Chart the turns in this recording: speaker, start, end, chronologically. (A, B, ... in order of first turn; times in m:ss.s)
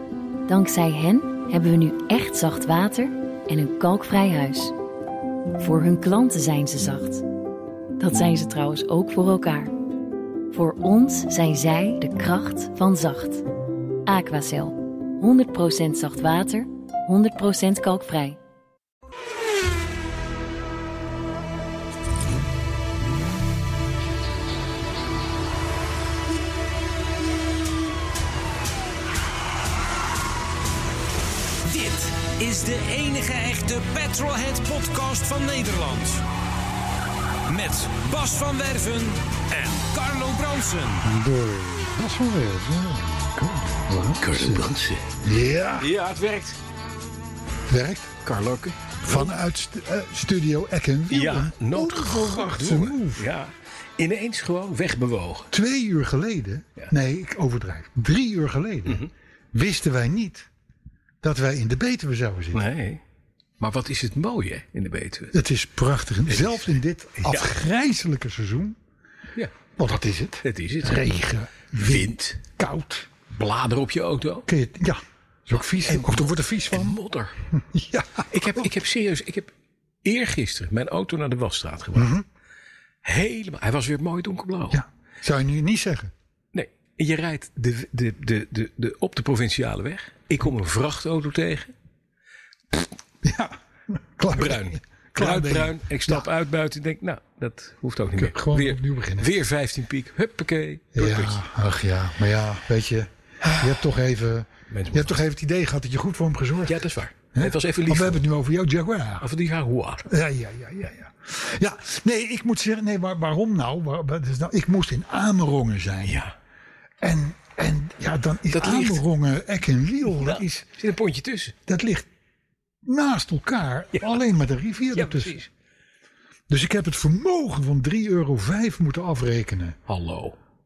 0:00.5-0:04.7 A
0:05.6-0:07.2 A
0:08.0-0:09.7 A
0:10.5-0:13.4 A
0:14.0-0:18.4 A
0:31.6-0:36.2 B
0:37.5-0:41.0 B
0:41.0-0:44.7 C
0:44.2-0:45.0 D
0:45.2-0:45.9 C
0:45.8-0:46.6 D
0:47.7-0:48.1 C
0:48.2-0:49.3 D
0:49.0-0:53.3 C
0:51.1-0:55.5 D
0:55.5-1:00.5 C
1:01.2-1:02.6 C
1:02.5-1:03.0 D
1:03.6-1:05.4 D
1:05.3-1:08.8 C
1:06.3-1:06.7 D
1:07.2-1:07.5 D
1:09.8-1:13.1 C
1:10.4-1:11.2 D
1:11.8-1:12.4 D
1:13.3-1:14.5 D
1:14.5-1:17.0 C
1:15.6-1:17.4 D
1:17.5-1:18.7 C
1:18.3-1:19.5 D
1:20.0-1:22.1 D
1:22.0-1:22.2 C
1:23.0-1:24.8 D
1:24.7-1:26.1 C
1:26.5-1:31.7 D
1:33.2-1:36.3 C
1:34.3-1:41.4 D
1:38.1-1:39.3 C
1:40.9-1:46.8 C
1:44.7-1:45.2 D
1:46.7-1:48.2 D
1:47.3-1:49.3 C
1:49.2-1:50.0 D
1:50.0-1:56.2 C
1:56.0-1:56.3 D
1:57.0-2:00.7 C
1:58.5-1:59.0 D
2:00.1-2:01.6 D
2:01.7-2:02.1 C
2:02.8-2:05.4 C
2:03.9-2:04.2 D
2:04.9-2:05.5 D
2:06.5-2:09.8 C
2:09.9-2:10.4 D